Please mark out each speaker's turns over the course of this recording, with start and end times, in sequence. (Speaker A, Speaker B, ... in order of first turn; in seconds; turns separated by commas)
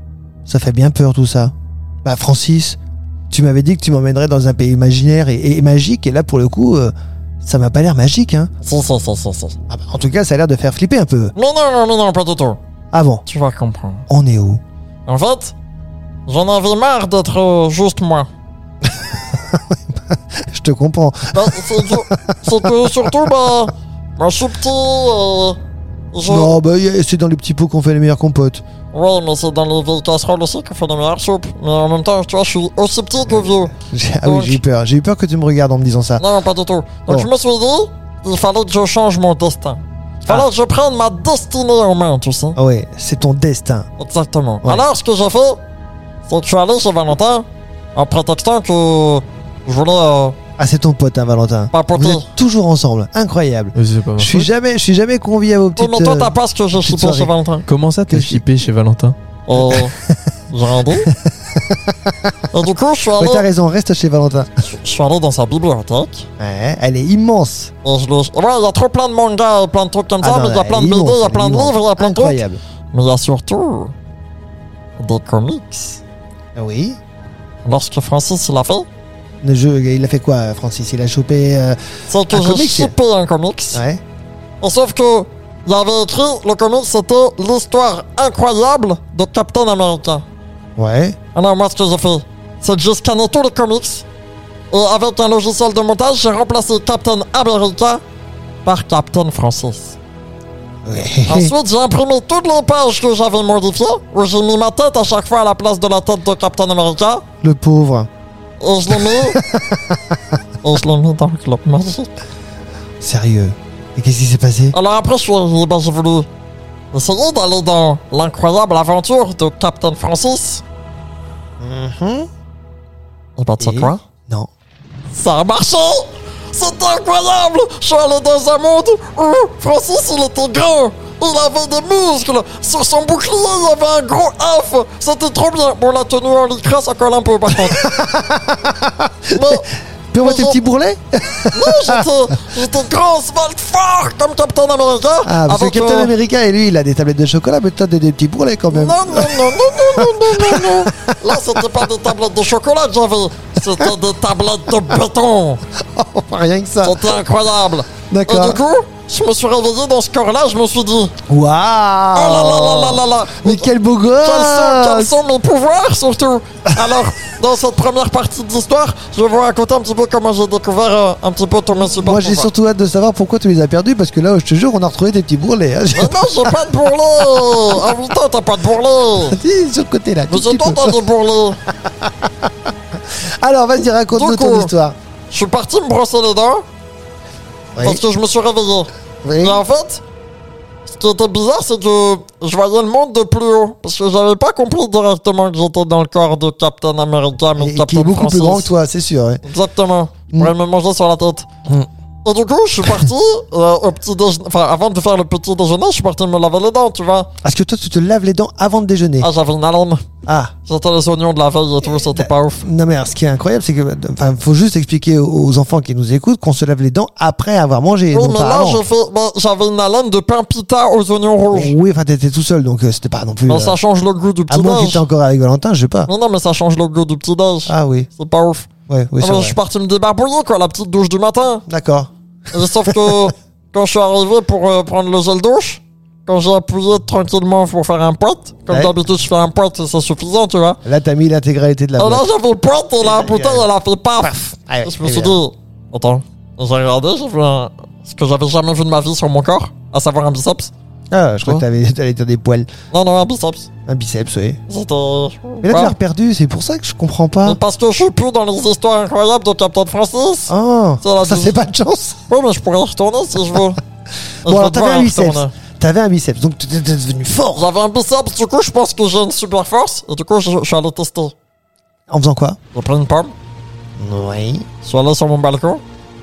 Speaker A: 0.5-1.5, Speaker A: 2.0-2.8, Speaker A: 3.3-8.5, Speaker B: 8.6-9.6, Speaker A: 9.7-11.3, Speaker B: 11.3-12.6, Speaker A: 12.9-13.2, Speaker B: 13.3-14.1, Speaker A: 14.1-14.6, Speaker B: 15.1-15.6, Speaker B: 16.3-18.3, Speaker A: 18.9-23.1, Speaker B: 21.3-25.6, Speaker B: 26.1-26.6, Speaker A: 26.2-28.6, Speaker B: 28.9-34.6, Speaker A: 33.6-36.2, Speaker B: 36.2-42.6, Speaker A: 42.6-43.9, Speaker B: 44.0-45.6, Speaker B: 46.3-50.4, Speaker A: 50.6-57.3, Speaker B: 51.7-52.3, Speaker C: 53.8-54.5, Speaker B: 55.8-57.7, Speaker C: 57.7-59.2, Speaker A: 58.0-58.4, Speaker B: 59.5-60.0, Speaker A: 59.6-60.3, Speaker B: 60.5-61.1, Speaker A: 60.9-62.3, Speaker B: 62.5-63.5, Speaker A: 63.2-64.5, Speaker B: 64.6-66.3, Speaker A: 66.4-67.7, Speaker B: 67.8-72.4, Speaker A: 70.2-72.6, Speaker B: 72.9-73.9, Speaker B: 75.0-76.0, Speaker A: 76.5-77.0, Speaker B: 77.6-78.9, Speaker A: 79.4-82.9, Speaker B: 82.1-83.8, Speaker A: 83.7-84.0, Speaker B: 84.6-90.2, Speaker A: 90.8-91.2, Speaker B: 91.3-94.0, Speaker B: 94.7-98.0, Speaker B: 98.7-100.0, Speaker A: 100.8-101.5, Speaker B: 101.3-107.2, Speaker A: 107.4-108.1, Speaker B: 108.6-109.4, Speaker A: 109.0-110.3, Speaker B: 110.6-112.1, Speaker A: 113.0-114.8, Speaker B: 114.7-116.3, Speaker B: 116.9-120.6, Speaker A: 121.6-122.3, Speaker B: 123.4-124.0, Speaker A: 123.6-124.5, Speaker B: 125.1-137.9, Speaker A: 137.6-139.6, Speaker B: 139.3-139.7, Speaker A: 140.1-142.1, Speaker B: 140.2-140.6, Speaker B: 141.5-146.1, Speaker A: 145.2-151.6, Speaker B: 148.7-155.6, Speaker A: 155.8-157.2, Speaker B: 156.8-161.1, Speaker A: 158.1-158.6, Speaker A: 161.3-165.2, Speaker B: 162.2-172.5, Speaker A: 171.9-176.7, Speaker B: 175.9-179.4, Speaker A: 177.3-177.7, Speaker A: 179.2-181.0, Speaker B: 180.3-181.6, Speaker A: 181.7-182.5, Speaker A: 183.1-184.9, Speaker B: 184.1-184.7, Speaker B: 185.3-186.6, Speaker A: 187.8-188.0, Speaker B: 187.8-190.0, Speaker A: 189.2-189.6, Speaker B: 190.9-198.7, Speaker A: 197.6-199.4, Speaker B: 199.4-201.5, Speaker B: 202.2-207.3, Speaker A: 207.4-209.3, Speaker B: 209.2-210.1, Speaker A: 210.3-210.5, Speaker B: 210.7-212.7, Speaker A: 211.8-218.8, Speaker B: 218.1-221.7, Speaker A: 221.5-223.8, Speaker B: 223.5-225.0, Speaker A: 224.5-226.1, Speaker B: 226.1-228.7, Speaker A: 227.7-228.1, Speaker A: 228.9-229.6, Speaker B: 229.2-231.6, Speaker A: 231.7-232.1, Speaker B: 232.5-240.8, Speaker A: 232.6-233.3, Speaker A: 238.7-238.9, Speaker A: 240.8-242.3, Speaker B: 242.0-250.7, Speaker A: 243.0-243.7, Speaker A: 244.7-245.4, Speaker A: 251.1-252.7, Speaker B: 252.9-253.7, Speaker A: 253.9-254.6, Speaker B: 254.7-255.9, Speaker A: 255.6-257.6, Speaker B: 257.4-261.6, Speaker A: 260.5-262.2, Speaker B: 262.3-263.8, Speaker B: 264.4-265.5, Speaker A: 264.4-267.7, Speaker B: 267.6-271.3, Speaker A: 272.1-272.6, Speaker B: 272.7-273.3, Speaker A: 274.0-274.7, Speaker B: 274.8-275.8